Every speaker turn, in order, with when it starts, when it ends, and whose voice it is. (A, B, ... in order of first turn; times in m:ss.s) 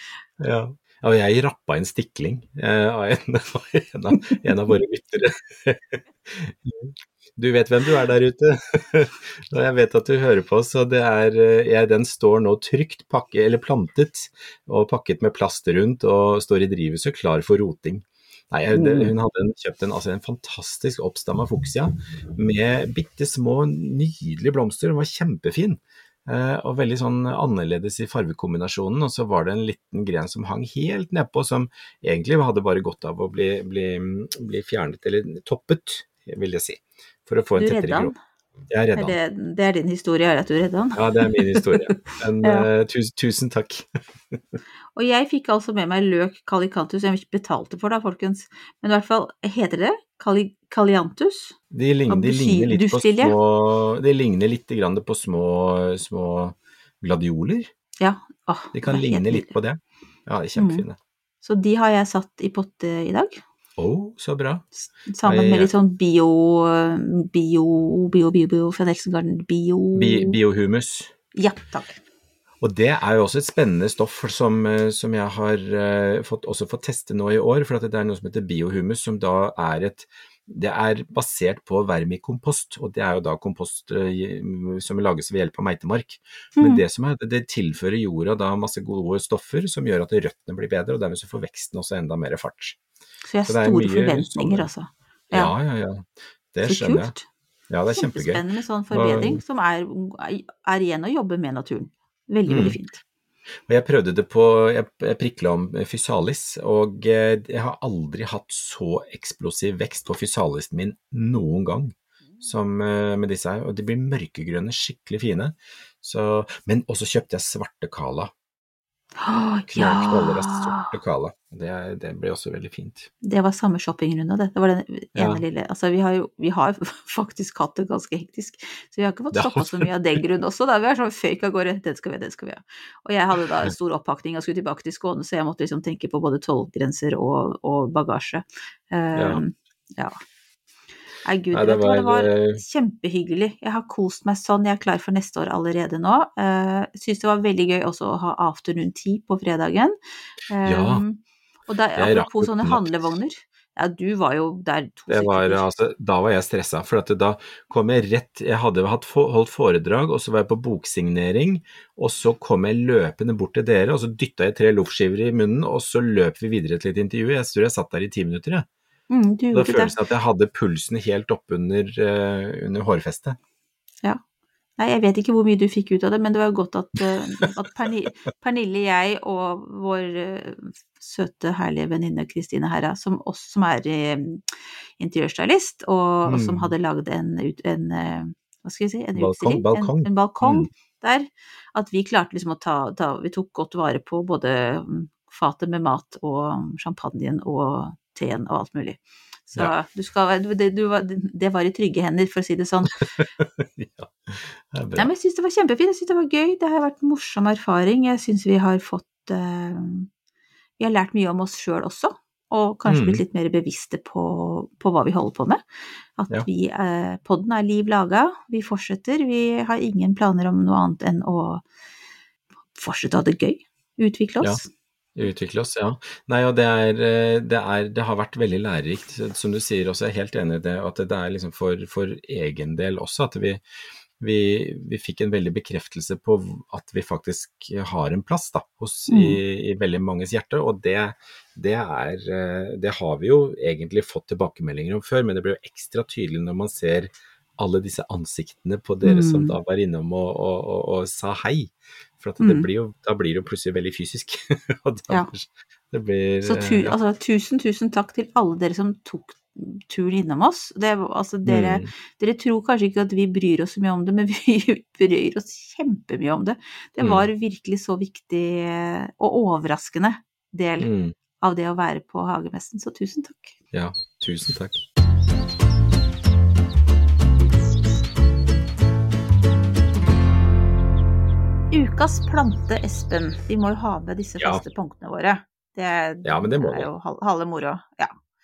0:00.4-0:38.1 A
0:18.7-0:19.1 B
0:37.5-0:38.1 B
0:38.7-0:39.1 A
0:38.9-0:42.7 B
0:40.9-0:44.4 A
0:44.9-0:51.6 B
0:51.7-0:57.7 A
0:52.1-0:53.4 B
0:58.0-0:59.5 B
0:58.7-1:01.0 A
1:00.5-1:00.8 B
1:01.4-1:03.4 B
1:03.8-1:04.6 A
1:05.1-1:10.4 B
1:05.2-1:05.7 A
1:09.9-1:11.1 A
1:11.3-1:12.0 B
1:12.6-1:32.8 A
1:26.6-1:26.8 B
1:33.2-1:35.5 B
1:33.4-1:34.7 A
1:35.3-1:37.1 A
1:36.6-1:37.2 B
1:37.7-1:39.4 A
1:37.9-1:43.0 B
1:42.5-1:42.8 A
1:43.7-1:58.3 A
1:59.2-2:00.9 B
1:59.7-2:03.1 A
2:03.2-2:20.2 B
2:05.1-2:05.4 A
2:09.3-2:09.9 A
2:19.1-2:19.4 A
2:21.2-2:30.0 B
2:21.5-2:22.6 A
2:30.5-2:35.7 B
2:30.6-2:31.0 A
2:32.0-2:33.1 A
2:35.1-2:48.7 A
2:49.1-2:49.9 B
2:49.5-2:53.4 A
2:54.8-3:04.4 B
3:05.0-3:23.1 B
3:06.2-3:06.7 A
3:09.1-3:10.7 A
3:23.2-3:25.1 A
3:25.0-3:30.1 B
3:30.8-3:35.6 B
3:32.9-3:33.2 A
3:36.2-3:41.6 B
3:42.7-3:44.7 B
3:45.1-3:53.6 A
3:54.2-4:17.0 A
3:59.1-3:59.4 B
4:09.0-4:09.6 B
4:12.4-4:12.7 B
4:16.4-4:33.6 B
4:21.4-4:21.9 A
4:27.0-4:27.3 A
4:30.8-4:31.1 A
4:33.7-4:34.8 A
4:41.7-4:48.1 B
4:44.4-4:44.6 A
4:46.2-4:46.9 A